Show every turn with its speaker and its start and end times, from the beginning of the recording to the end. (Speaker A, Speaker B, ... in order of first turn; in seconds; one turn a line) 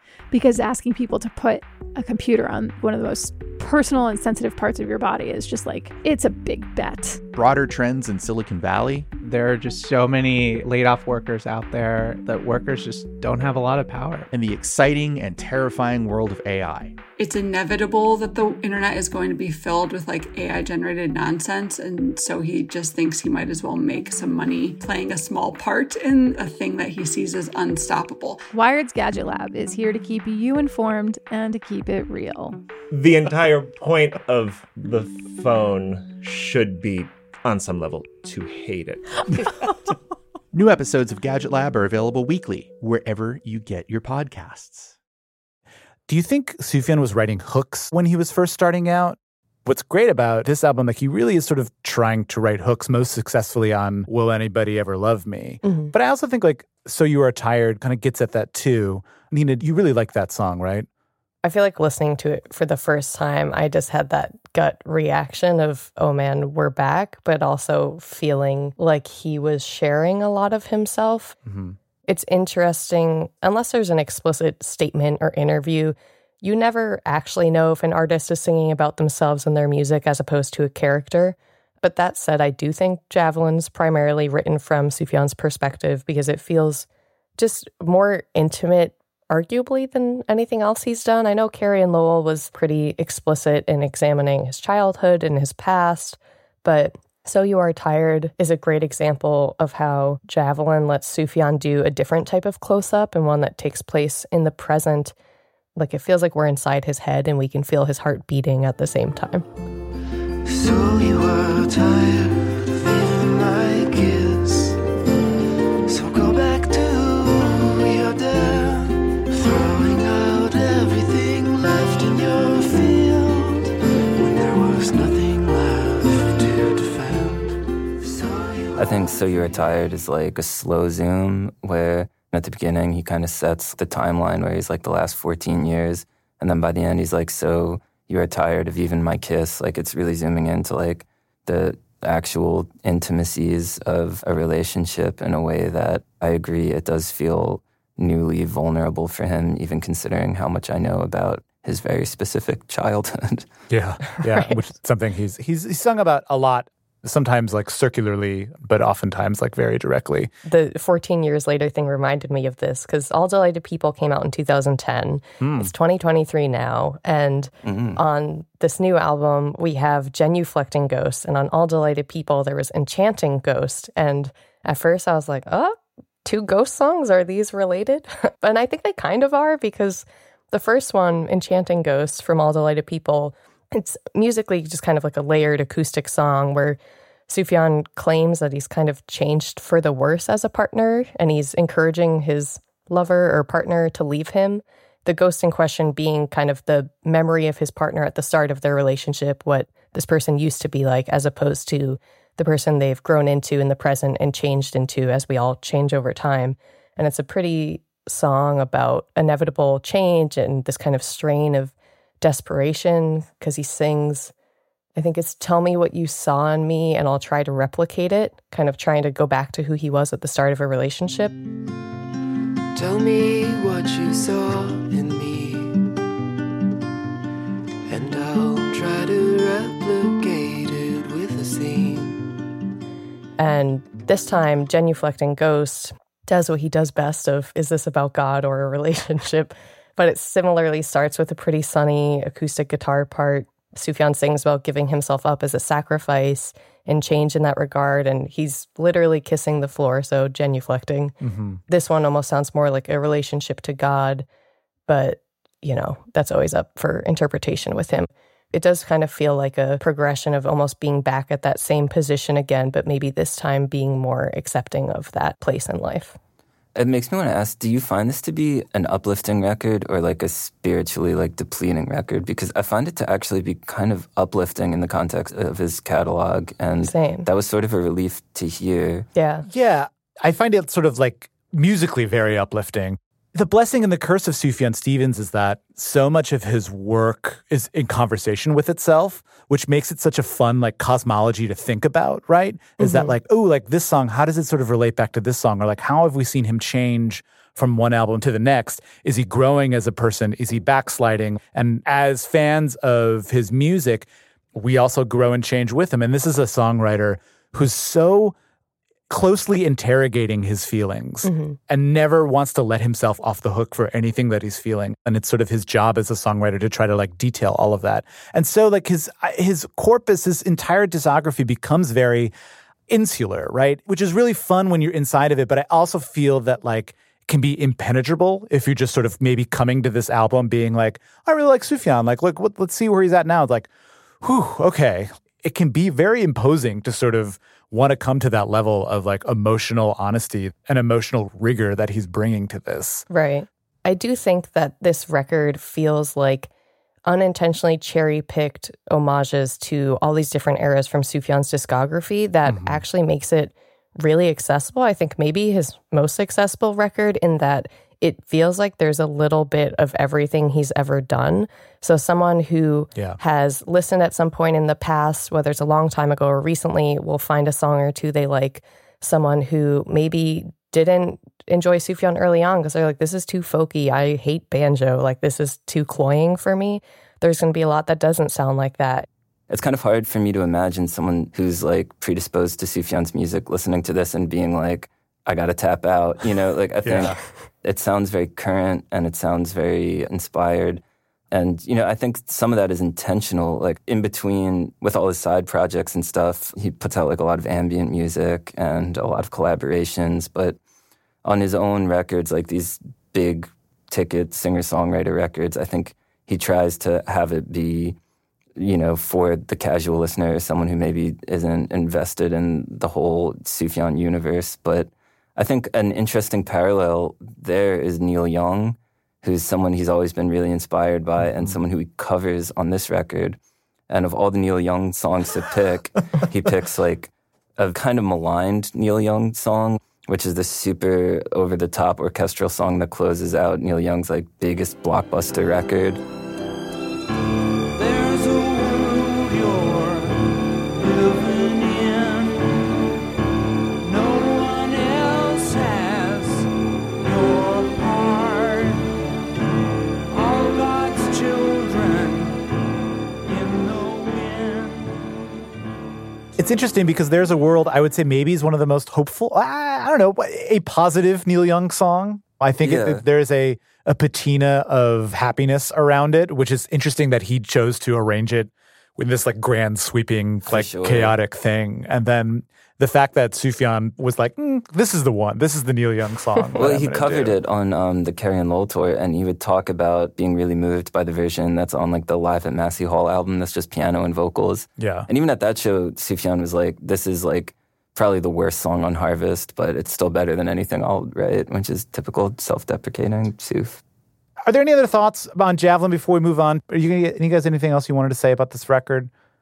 Speaker A: 0.3-7.2
Speaker B: 7.3-9.1
Speaker C: 9.2-14.3
Speaker B: 14.3-16.9
Speaker D: 17.2-28.4
Speaker A: 28.5-32.6
Speaker E: 32.9-39.1
Speaker B: 40.5-44.9
Speaker F: 46.1-60.9
Speaker G: 55.6-55.9
Speaker G: 61.4-71.3
Speaker F: 71.5-71.8
Speaker G: 72.1-86.8
Speaker G: 87.4-105.1
Speaker G: 105.8-109.4
Speaker H: 110.4-114.8
Speaker H: 115.9-129.1
Speaker I: 128.8-153.5
Speaker F: 153.7-160.3
Speaker G: 154.2-154.6
Speaker G: 160.4-214.3
Speaker F: 165.4-165.7
Speaker I: 167.6-168.0
Speaker G: 214.9-221.4
Speaker H: 222.7-225.9
Speaker H: 227.9-232.3
Speaker G: 233.4-251.1
Speaker F: 251.2-251.6
Speaker G: 251.7-254.2
Speaker G: 254.9-266.1
Speaker I: 266.7-279.1
Speaker G: 276.8-277.3
Speaker G: 279.1-279.4
Speaker F: 279.5-308.3
Speaker G: 292.8-293.1
Speaker F: 309.1-322.3
Speaker G: 311.2-311.6
Speaker F: 322.9-333.7
Speaker F: 334.2-343.1
Speaker G: 343.1-346.5
Speaker G: 347.1-379.1
Speaker F: 352.4-352.8
Speaker I: 379.5-400.6
Speaker F: 386.8-387.1
Speaker I: 401.2-407.9
Speaker I: 408.6-423.4
Speaker F: 421.2-421.6
Speaker I: 423.9-436.0
Speaker F: 445.9-446.2
Speaker F: 456.4-477.4
Speaker I: 462.6-463.0
Speaker I: 470.4-471.1
Speaker I: 476.6-493.8
Speaker F: 484.8-485.1
Speaker F: 494.4-499.1